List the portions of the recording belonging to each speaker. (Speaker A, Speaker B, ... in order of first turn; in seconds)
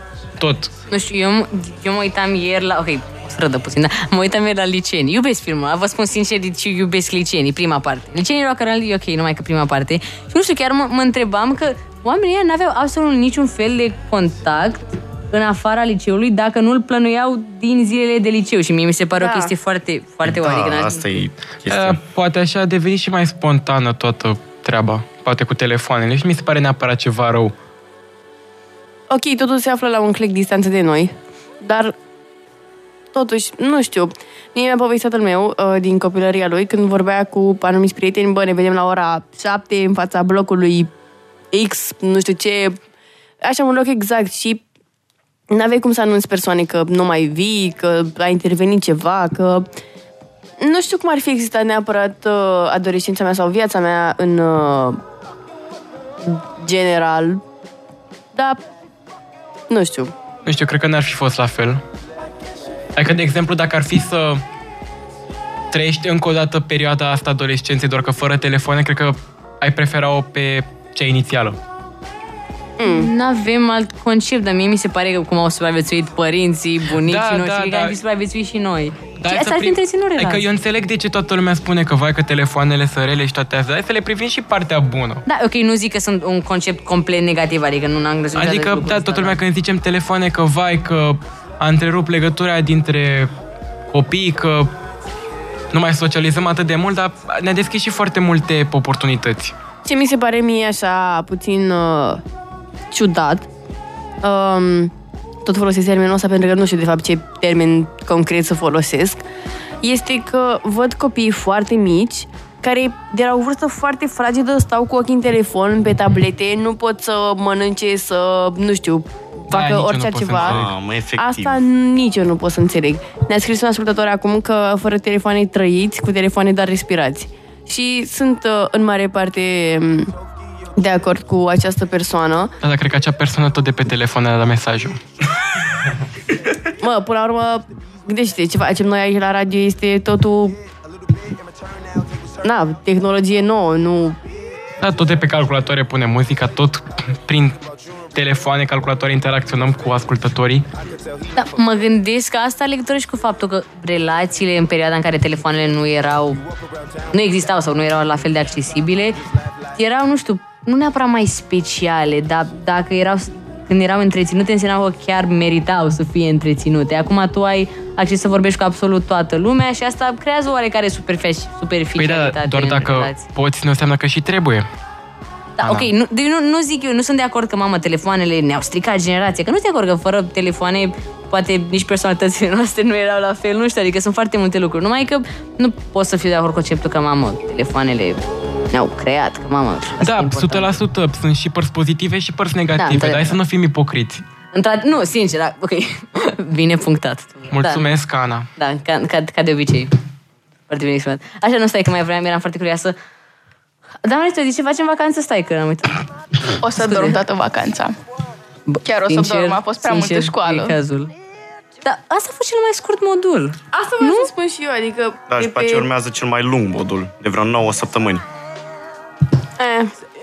Speaker A: 0.4-0.7, 21.7-27.5, 60.4-61.8, 63.0-64.4, 65.7-71.5, 77.0-78.0, 79.2-85.2, 88.3-93.3, 93.9-94.7, 95.7-99.5, 119.5-120.7, 132.6-135.0, 144.8-147.6, 148.1-150.6, 172.0-174.7, 175.6-175.9, 190.0-194.2, 197.5-198.5
Speaker B: 0.9-21.2, 72.8-80.4, 85.2-89.4, 151.3-156.4, 157.1-159.2, 159.7-173.2, 175.6-188.2, 188.7-190.7, 192.8-193.4, 194.5-197.8, 198.6-199.9, 200.7-202.9, 204.0-206.0, 206.8-207.2, 208.7-211.1, 211.8-214.3
Speaker C: 19.2-19.5, 29.1-31.9, 33.1-40.9, 41.5-42.8, 43.4-44.6, 45.5-49.7, 50.6-55.0, 56.2-57.4, 58.3-58.6, 59.7-60.1, 72.8-73.1, 99.8-102.2, 102.9-103.5, 104.2-104.9, 105.4-109.2, 109.8-130.1, 130.8-132.5, 136.8-140.6, 142.4-144.2, 213.7-215.9, 219.6-219.9
Speaker D: 20.2-22.0, 120.3-121.6, 215.3-218.2
Speaker E: 206.6-207.9, 208.8-210.7